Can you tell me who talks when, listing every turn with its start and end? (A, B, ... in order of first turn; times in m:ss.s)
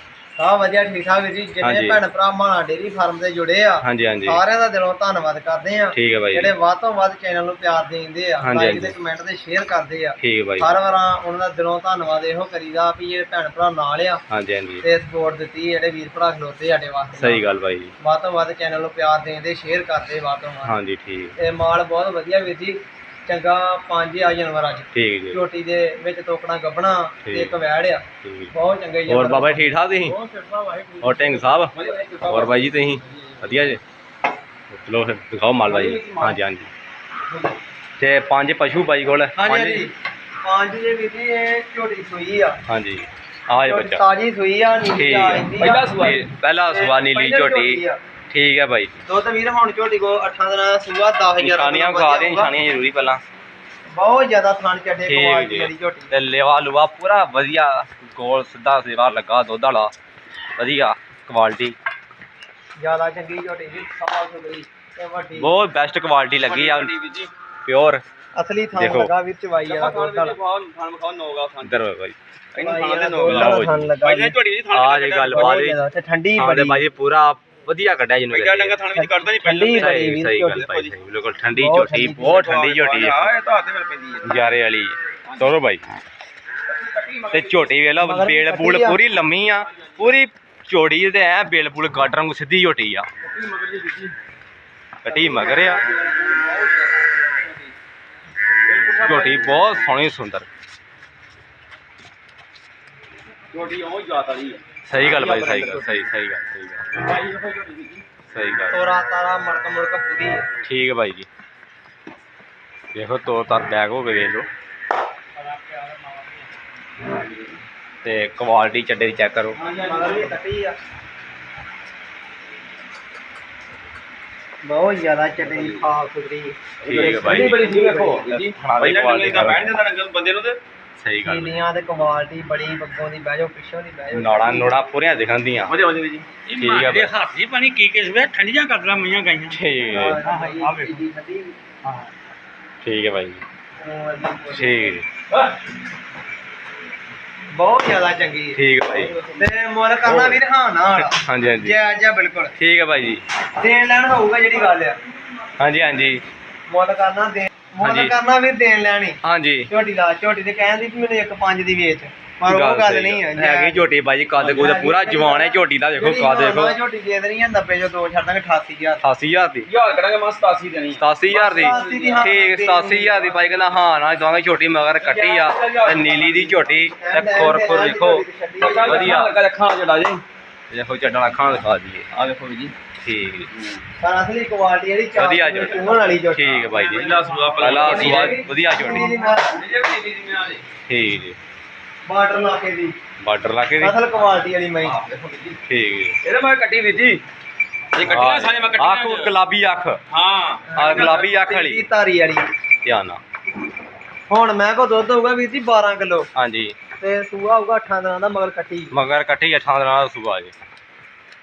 0:00.4-0:14.2 A
0:01.6-0:02.0 B
0:03.8-0:04.4 B
0:05.9-0:06.5 B
0:08.4-0:08.9 B
0:10.2-0:10.7 B
0:14.3-0:14.8 B
0:14.8-0:17.4 A
0:17.2-0:17.9 B
0:18.0-0:20.7 A
0:20.6-0:21.4 B
0:21.4-0:30.2 A
0:24.9-0:25.4 B
0:27.2-0:27.5 B
0:28.2-0:28.5 B
0:29.1-0:30.2 B
0:30.2-0:31.4 C
0:31.0-0:33.8 B
0:31.7-0:33.8 D
0:34.7-0:36.7 B
0:35.6-0:36.4 D
0:38.0-0:39.8 B
0:39.4-0:39.9 A
0:40.4-0:42.6 A
0:42.7-0:44.0 B
0:43.6-0:45.8 A
0:44.9-0:48.9 B
0:45.6-0:46.2 D
0:46.7-0:48.0 A
0:49.0-0:52.5 A
0:51.4-0:53.2 B
0:53.9-0:56.1 A
0:55.0-0:59.9 B
1:00.6-1:01.8 B
1:02.8-1:03.9 A
1:03.7-1:04.7 D
1:05.0-1:05.5 A
1:05.4-1:06.9 B
1:06.4-1:07.3 D
1:07.6-1:08.0 B
1:08.3-1:10.4 A
1:08.8-1:09.1 B
1:09.6-1:11.8 D
1:11.6-1:12.2 B
1:12.5-1:15.6 D
1:12.6-1:14.4 A
1:13.2-1:13.9 B
1:14.7-1:15.8 B
1:15.3-1:16.9 A
1:16.4-1:18.8 B
1:18.3-1:20.9 D
1:18.9-1:20.6 A
1:19.7-1:23.3 B
1:21.5-1:22.4 A
1:22.2-1:24.4 D
1:24.2-1:25.8 B
1:25.3-1:25.6 D
1:26.7-1:27.7 D
1:27.3-1:33.1 B
1:28.0-1:29.0 A
1:33.2-1:34.1 D
1:35.0-1:35.8 B
1:35.0-1:37.7 D
1:38.7-1:39.5 D
1:39.0-1:40.5 B
1:43.5-1:46.1 D
1:44.9-1:46.9 B
1:47.0-1:48.0 D
1:48.3-1:48.8 B
1:48.7-1:50.4 A
1:50.6-1:51.3 B
1:52.9-1:54.5 B
1:55.4-1:56.6 C
1:58.0-1:59.6 B
1:59.6-2:00.4 D
1:59.8-2:00.8 A
2:04.6-2:08.5 A
2:05.4-2:05.8 D
2:06.8-2:07.5 B
2:06.8-2:10.6 D
2:08.6-2:09.7 B
2:11.0-2:11.6 B
2:11.2-2:14.8 A
2:14.1-2:15.7 B
2:15.7-2:16.3 D
2:16.4-2:21.0 C
2:16.5-2:17.1 B
2:19.5-2:20.2 B
2:19.9-2:21.6 A
2:21.8-2:22.1 C
2:22.8-2:23.4 B
2:23.8-2:25.0 A
2:24.5-2:25.0 B
2:27.5-2:28.6 A
2:28.5-2:29.1 B
2:28.9-2:29.5 D
2:29.3-2:32.5 A
2:30.0-2:30.4 B
2:31.0-2:31.8 B
2:32.6-2:33.2 B
2:33.6-2:35.0 A
2:35.6-2:36.2 B
2:36.7-2:43.8 A
2:37.8-2:38.1 B
2:39.2-2:39.7 B
2:42.4-2:46.8 B
2:44.4-2:49.0 A
2:49.0-2:49.7 B
2:49.7-2:52.3 D
2:51.0-2:59.3 B
2:51.4-2:53.4 A
2:55.0-2:56.7 D
2:56.8-2:59.2 A
2:58.6-3:00.2 D
3:00.7-3:02.1 B
3:02.1-3:02.7 D
3:03.0-3:03.5 B
3:03.5-3:03.8 D
3:04.0-3:06.6 A
3:05.1-3:09.1 B
3:05.8-3:06.1 D
3:06.6-3:08.2 C
3:06.8-3:08.4 D
3:07.7-3:09.6 A
3:09.5-3:10.6 D
3:10.9-3:11.4 B
3:12.0-3:13.0 A
3:13.2-3:14.0 B
3:13.8-3:15.0 A
3:14.2-3:15.6 D
3:15.7-3:16.2 B
3:16.2-3:17.2 D
3:17.9-3:19.3 D
3:18.0-3:20.0 B
3:20.1-3:21.2 D
3:20.7-3:22.4 A
3:20.7-3:21.9 B
3:22.8-3:23.2 B
3:24.3-3:26.3 A
3:26.3-3:26.7 B
3:27.0-3:28.9 A
3:28.9-3:30.5 B